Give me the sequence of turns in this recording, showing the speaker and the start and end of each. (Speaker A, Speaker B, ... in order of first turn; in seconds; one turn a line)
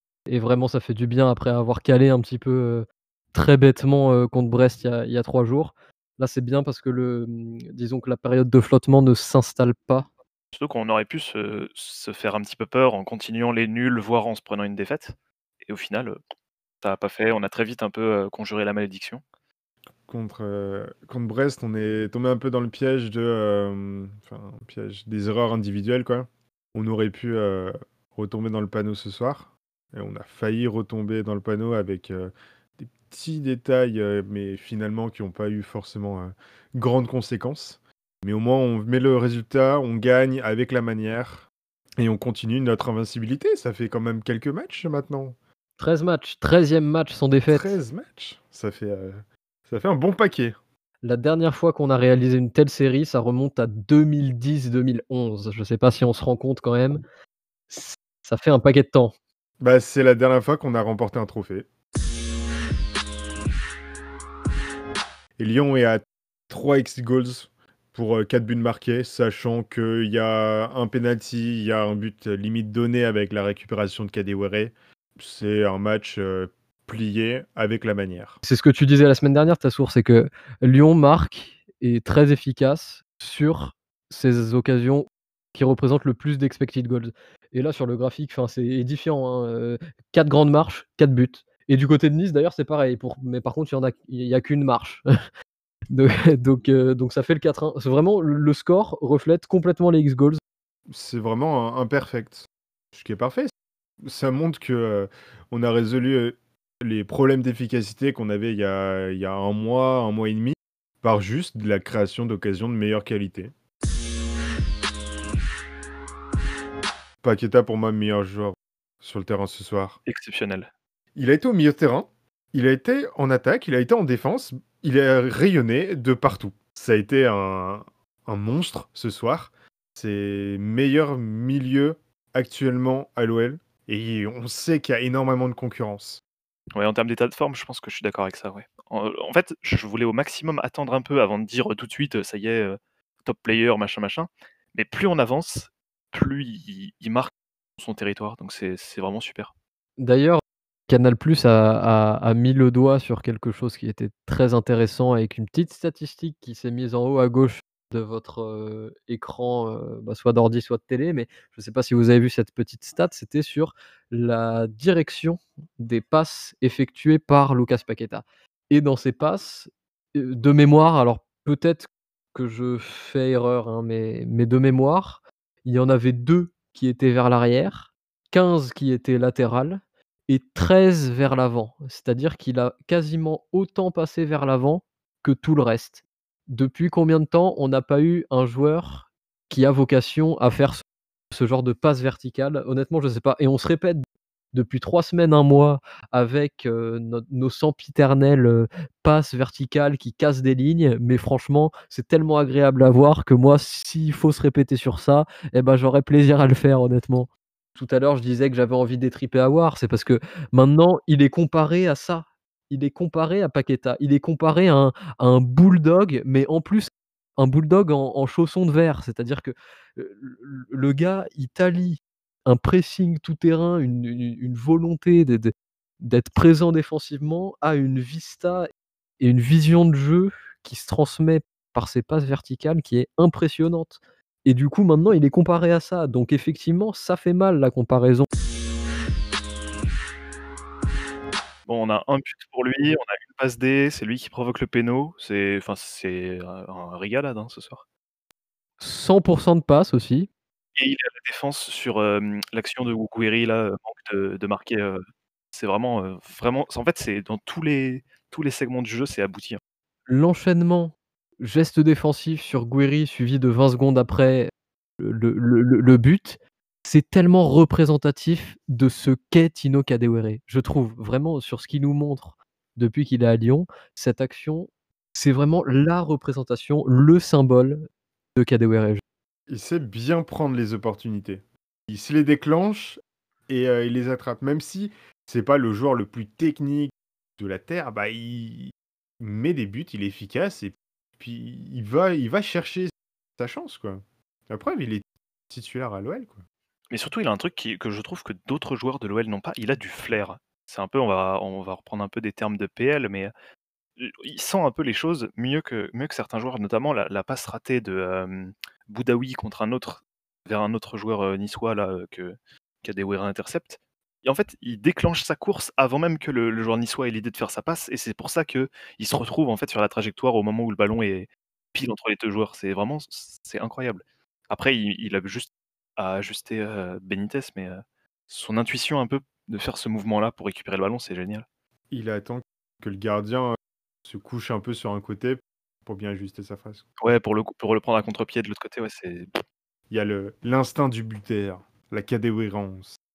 Speaker A: 0.3-10.1
Speaker B: 10.5-16.2
Speaker B: 16.8-19.2
Speaker C: 20.1-41.5
Speaker C: 42.0-45.4
Speaker A: 45.8-47.7
Speaker C: 47.5-50.6
Speaker A: 51.0-57.0
Speaker A: 57.7-59.1
Speaker C: 59.6-61.7
Speaker C: 65.4-78.4
Speaker A: 78.4-95.0
Speaker A: 95.9-100.4
Speaker C: 100.9-103.5
Speaker C: 104.0-113.5
Speaker C: 117.2-120.0
Speaker B: 120.1-120.7
Speaker C: 121.2-136.2
Speaker B: 136.8-149.5
Speaker A: 150.0-228.7
Speaker A: 229.2-238.3
Speaker B: 241.7-247.8
Speaker A: 248.8-250.3
Speaker B: 250.8-255.0
Speaker B: 255.5-259.6
Speaker A: 260.1-279.0
Speaker C: 279.5-296.4
Speaker B: 296.9-303.3
Speaker B: 304.0-331.5
Speaker C: 331.9-336.9
Speaker B: 337.0-339.3
Speaker C: 339.9-343.0